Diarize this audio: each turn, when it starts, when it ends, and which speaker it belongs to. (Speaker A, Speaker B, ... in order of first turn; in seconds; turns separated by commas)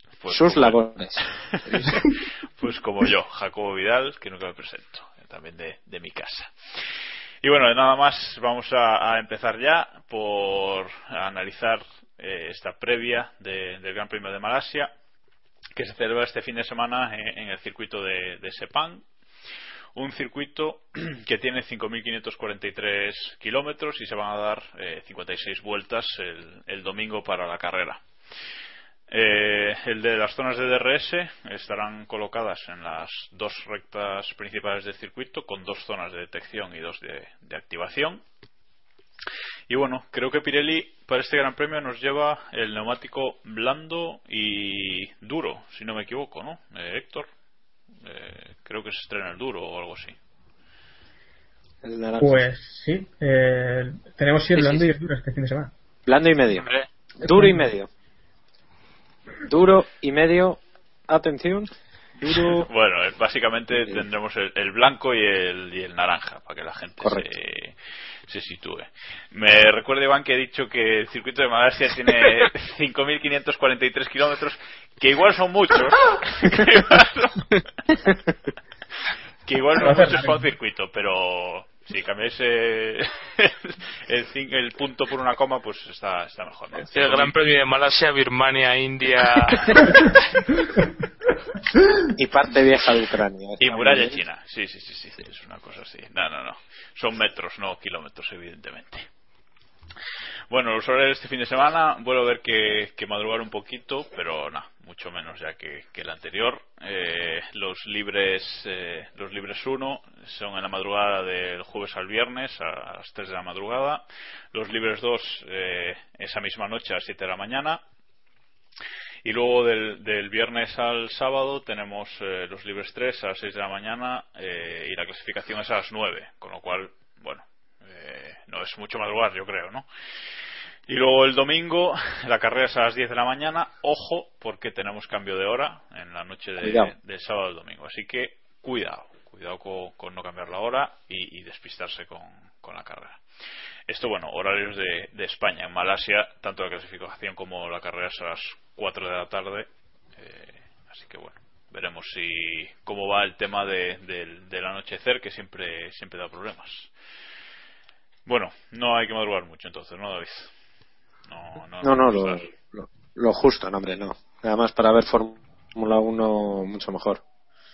Speaker A: 0.2-2.1, Speaker B: 0.3-2.0, Speaker A: 2.6-6.5, Speaker A: 7.4-14.9, Speaker A: 15.8-19.0, Speaker A: 19.9-28.0, Speaker A: 29.1-38.2, Speaker A: 39.7-47.3, Speaker A: 48.0-50.1, Speaker B: 51.8-52.5, Speaker C: 52.2-55.7, Speaker B: 56.0-56.7, Speaker B: 57.2-57.9, Speaker C: 57.3-57.6, Speaker B: 59.5-61.7, Speaker B: 62.2-62.7, Speaker A: 62.5-67.7, Speaker B: 67.0-67.3, Speaker A: 68.3-77.5, Speaker A: 79.5-87.3, Speaker C: 79.8-80.5, Speaker D: 86.9-89.8, Speaker A: 89.7-90.0, Speaker B: 92.2-94.2, Speaker A: 93.6-99.1, Speaker A: 100.5-117.8, Speaker A: 119.2-129.8, Speaker A: 130.9-143.2, Speaker B: 136.6-136.9, Speaker A: 143.9-156.9, Speaker A: 158.2-160.5, Speaker A: 161.3-162.4, Speaker B: 161.8-167.2